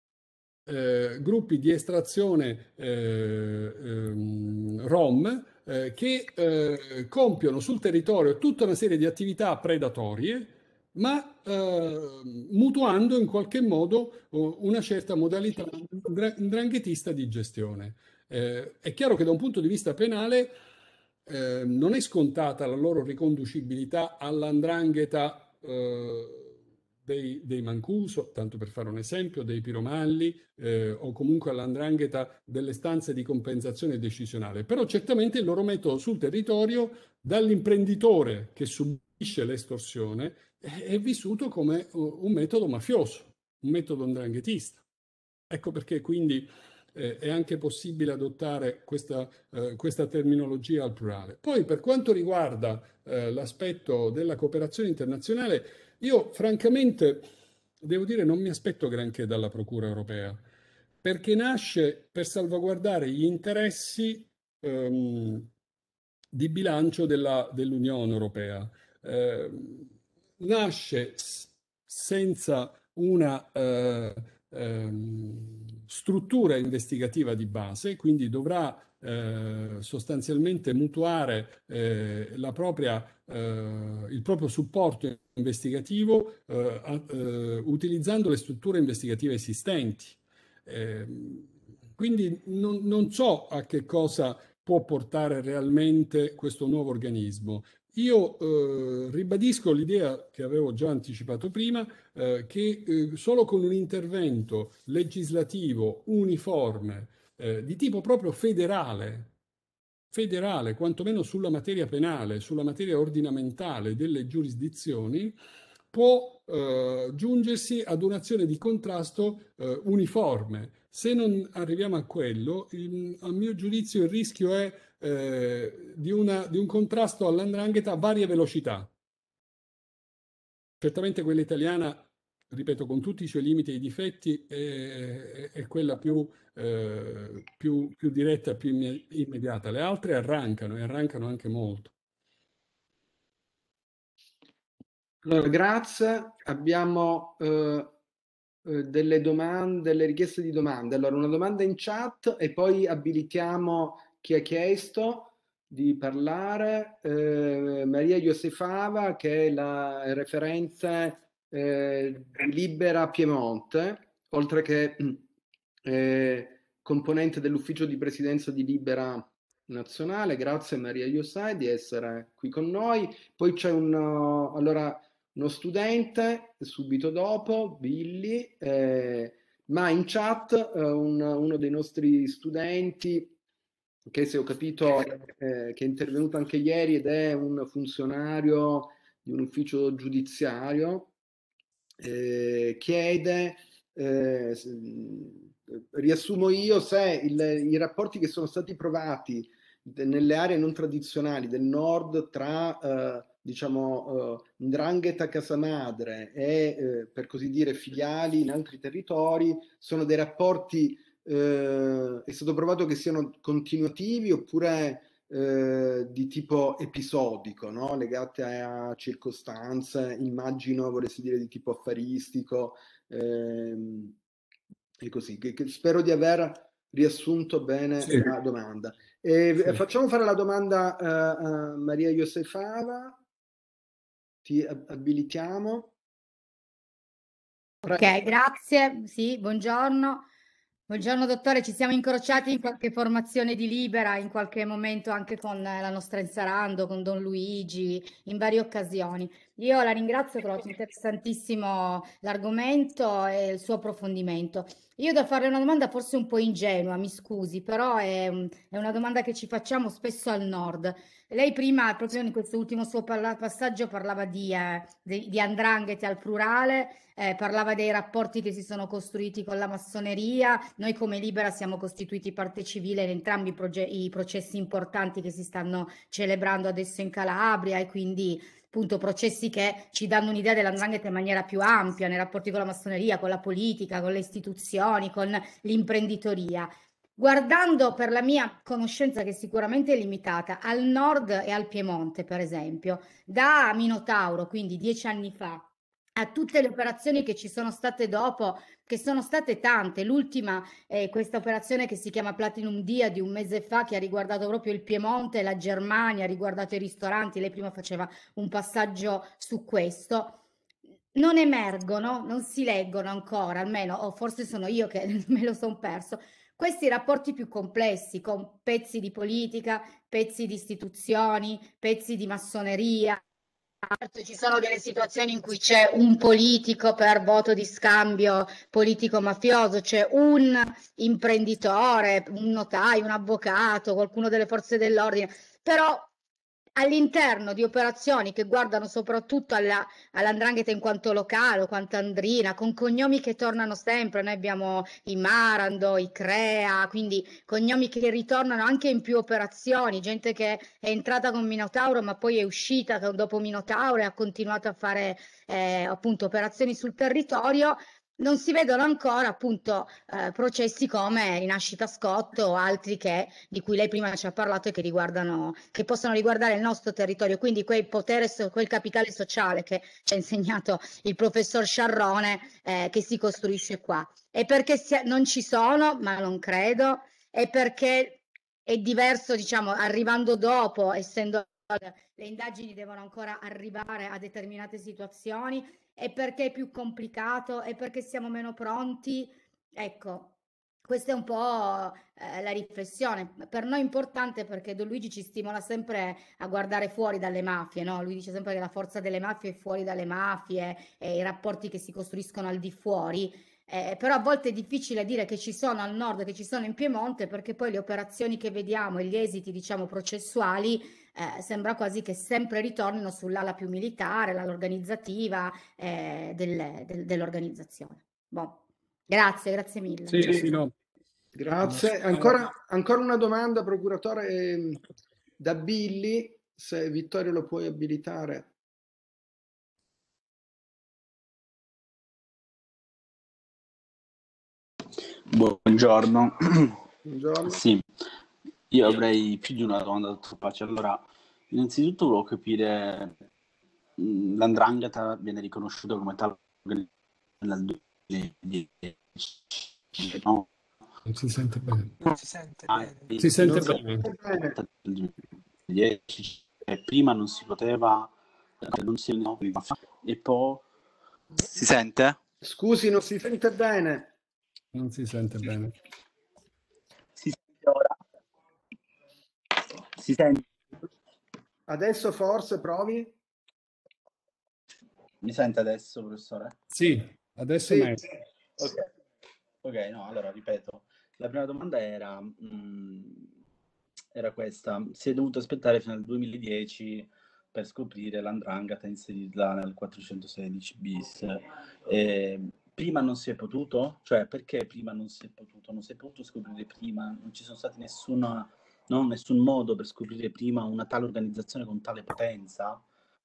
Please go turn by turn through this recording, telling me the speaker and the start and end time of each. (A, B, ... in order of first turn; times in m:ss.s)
0:00.7-0:20.6 A
0:21.3-0:26.5 A
0:27.0-0:44.8 A
0:45.5-0:57.3 A
0:57.8-1:00.4 A
1:01.0-1:05.5 A
1:06.3-1:49.3 A
1:50.1-1:55.4 A
1:55.9-2:08.9 A
2:10.8-2:21.9 A
2:25.2-2:27.9 B
2:28.6-2:45.2 B
2:45.8-3:03.4 B
3:04.1-3:11.1 B
3:12.0-3:44.2 B
3:45.0-3:53.2 B
3:54.4-3:55.9 B
3:57.8-4:00.2 C
4:00.9-5:10.4 C
5:11.2-5:23.2 C
5:23.8-5:36.1 C
5:36.8-6:30.3 C
6:30.8-7:00.5 C
7:00.1-7:00.7 A
7:01.3-7:04.8 B
7:01.6-7:02.4 A
7:05.4-7:08.5 B
7:15.3-7:16.8 D
7:17.0-7:17.6 B
7:17.4-7:17.8 D
7:18.7-7:23.2 D
7:24.0-7:26.9 D
7:27.4-7:30.5 D
7:31.1-7:32.1 A
7:32.3-7:33.8 D
7:33.2-7:34.1 A
7:34.0-7:34.6 B
7:34.6-7:35.1 D
7:35.7-7:40.6 D
7:41.4-7:42.2 D
7:42.4-7:44.1 B
7:44.7-7:45.7 A
7:47.2-7:48.0 D
7:49.9-7:50.4 D
7:51.7-7:53.1 B
7:55.2-7:56.6 D
7:56.7-7:58.0 A
7:57.6-7:58.0 B
7:59.6-8:03.3 D
8:04.2-8:22.8 D